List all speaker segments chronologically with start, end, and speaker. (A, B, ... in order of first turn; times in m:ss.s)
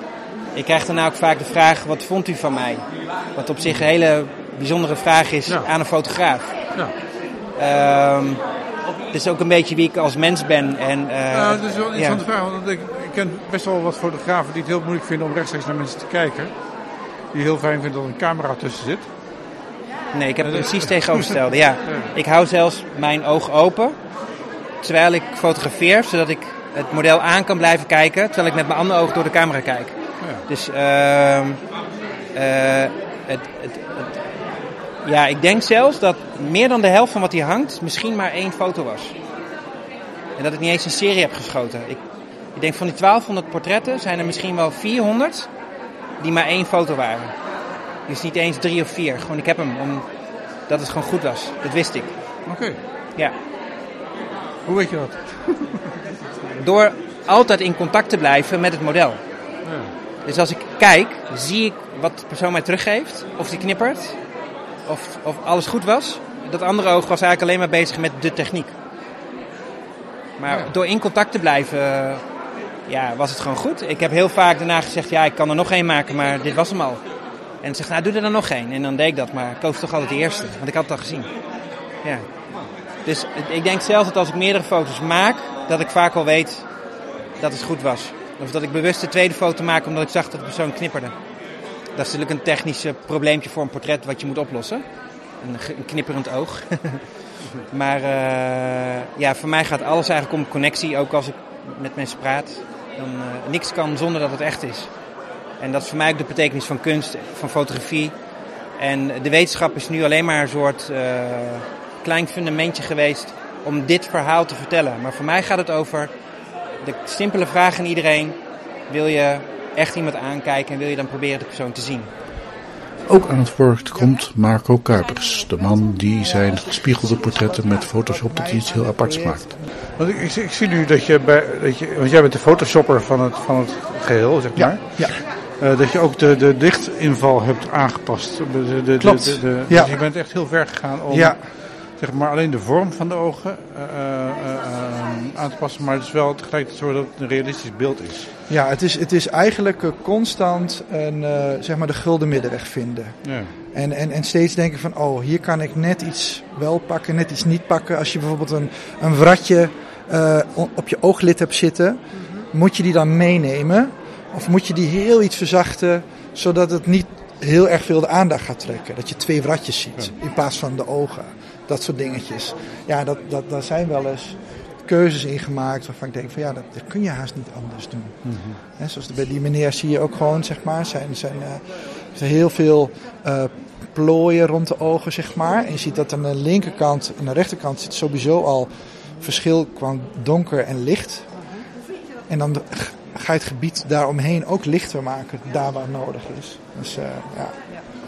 0:00.5-0:06.5 A
0:07.5-0:08.4 A
0:09.1-0:12.2 A
0:11.3-0:16.5 B
0:17.3-0:19.1 B
0:20.1-0:24.0 A
0:20.4-0:22.1 B
0:24.8-0:30.0 A
0:30.2-0:30.4 B
0:30.5-0:31.6 A
0:32.3-0:34.2 A
0:35.0-0:39.1 A
0:40.4-0:42.0 A
0:42.5-0:45.5 A
0:46.2-0:47.3 A
0:48.1-0:50.0 A
0:50.7-0:52.1 A
0:52.4-0:52.8 B
0:54.6-0:55.9 B
0:56.5-0:59.2 A
0:59.6-0:59.9 B
1:00.2-1:04.2 A
1:04.8-1:08.7 A
1:10.4-1:12.2 A
1:12.9-1:17.0 A
1:17.6-1:21.3 A
1:23.0-1:26.7 A
1:27.4-1:31.1 A
1:31.9-1:34.8 A
1:35.4-1:37.0 A
1:37.6-1:44.9 A
1:45.6-1:48.1 A
1:48.8-1:56.1 A
1:56.8-1:58.4 A
1:58.9-2:02.1 A
2:03.0-2:09.4 C
2:06.2-2:09.7 D
2:10.0-2:28.3 B
2:14.5-2:15.2 D
2:19.0-2:19.9 D
2:21.1-2:21.4 D
2:28.5-3:11.3 D
2:33.2-2:33.5 B
2:58.2-2:58.6 B
3:12.3-3:17.5 D